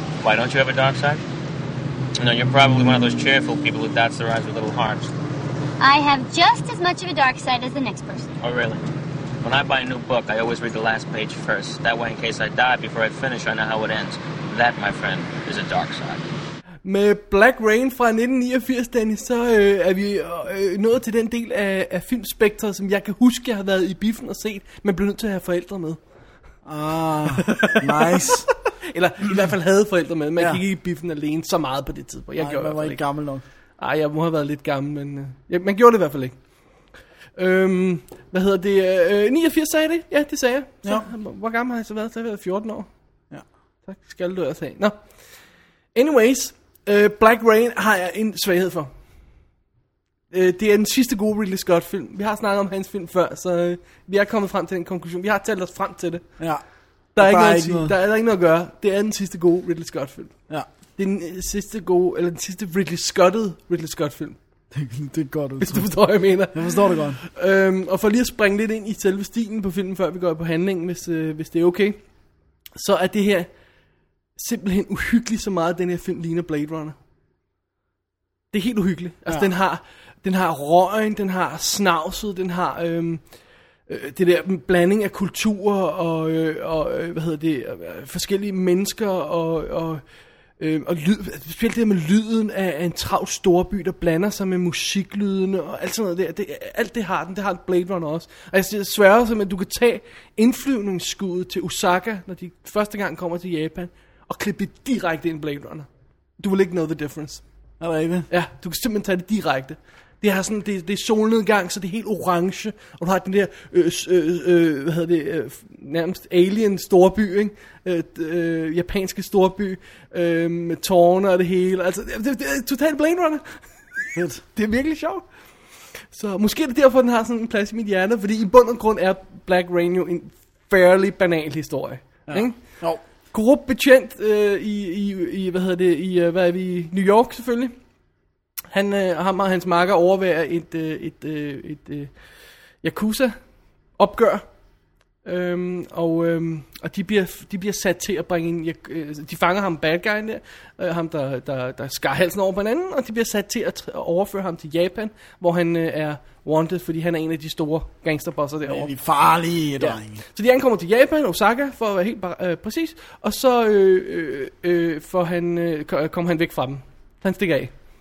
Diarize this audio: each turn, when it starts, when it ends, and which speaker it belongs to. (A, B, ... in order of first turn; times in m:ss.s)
0:00.2-0:01.2 A
0:02.2-0:05.1 A
0:05.8-0:08.3 B
0:08.4-0:08.8 A
0:09.4-0:16.2 A
0:16.8-0:26.0 C
0:26.6-0:28.5 D
0:27.4-0:33.0 C
0:32.4-0:33.4 D
0:33.8-0:36.4 C
0:37.4-0:42.9 C
0:43.9-0:45.0 C
0:45.9-0:48.9 C
0:50.3-0:56.3 C
0:57.1-1:00.3 C
0:57.2-0:57.9 D
1:01.0-1:04.4 C
1:04.7-1:07.2 D
1:05.6-1:12.0 C
1:12.7-1:13.5 C
1:14.4-1:17.0 C
1:18.5-1:23.2 C
1:23.9-1:30.0 C
1:30.6-1:45.9 C
1:46.4-1:47.4 C
1:47.8-1:48.3 D
1:48.3-2:05.2 C
2:04.1-2:04.4 D
2:06.1-2:12.6 C
2:12.3-2:13.0 D
2:13.3-2:17.7 C
2:18.7-2:22.1 C
2:22.8-2:23.4 C
2:24.0-2:24.4 C
2:25.2-2:38.9 C
2:38.6-2:40.2 D
2:39.8-2:47.7 C